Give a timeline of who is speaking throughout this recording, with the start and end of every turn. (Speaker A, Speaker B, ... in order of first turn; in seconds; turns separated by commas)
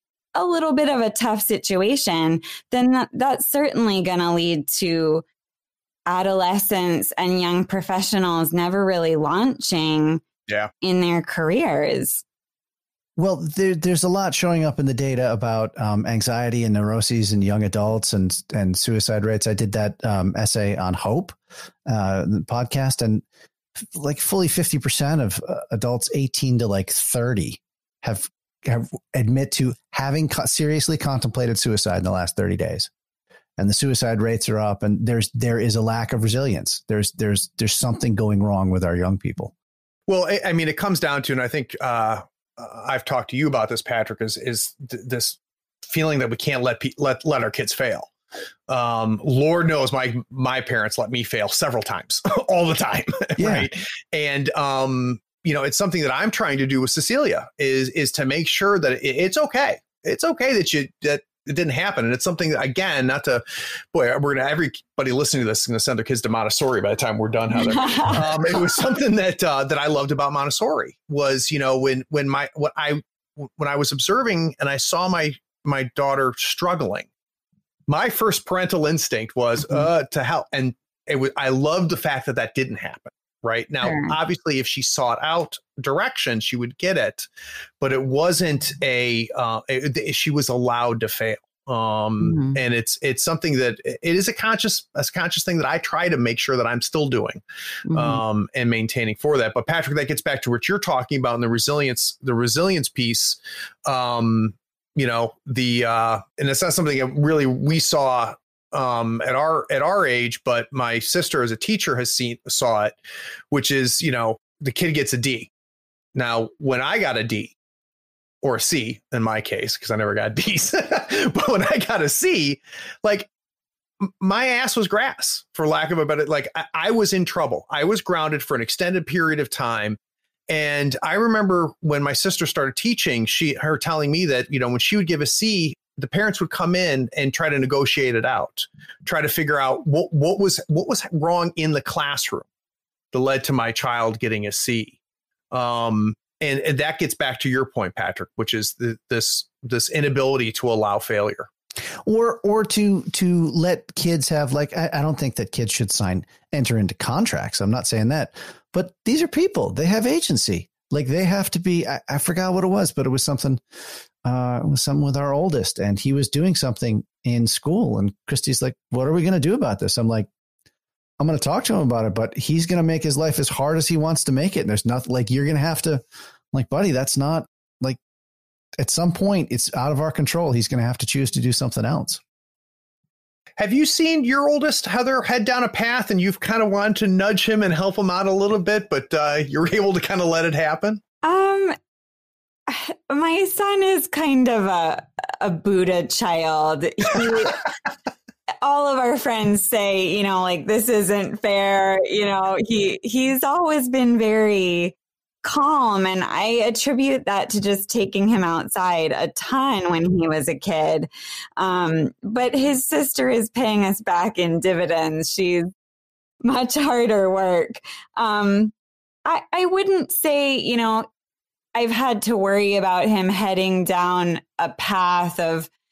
Speaker A: 0.3-5.2, Speaker A: 6.1-10.2, Speaker A: 10.8-12.2, Speaker B: 13.2-23.2, Speaker B: 23.8-32.9, Speaker B: 33.6-39.5, Speaker C: 40.1-48.1, Speaker C: 48.7-77.1, Speaker B: 53.4-53.7, Speaker A: 67.6-68.3, Speaker C: 77.9-87.3, Speaker A: 83.8-84.2, Speaker C: 87.8-97.4, Speaker A: 92.2-92.6, Speaker A: 97.9-98.2, Speaker C: 97.9-113.0, Speaker C: 113.5-115.5, Speaker C: 116.2-117.6, Speaker C: 118.4-123.3, Speaker C: 124.0-130.0, Speaker C: 130.5-142.5, Speaker C: 143.1-145.0, Speaker C: 145.5-151.5, Speaker B: 152.1-163.6, Speaker B: 164.2-170.3, Speaker B: 171.2-178.0, Speaker B: 178.8-182.2, Speaker C: 183.6-191.0, Speaker A: 191.2-191.8, Speaker A: 192.7-197.7, Speaker A: 198.6-215.7, Speaker A: 216.4-218.7, Speaker A: 219.3-221.1, Speaker A: 221.8-225.7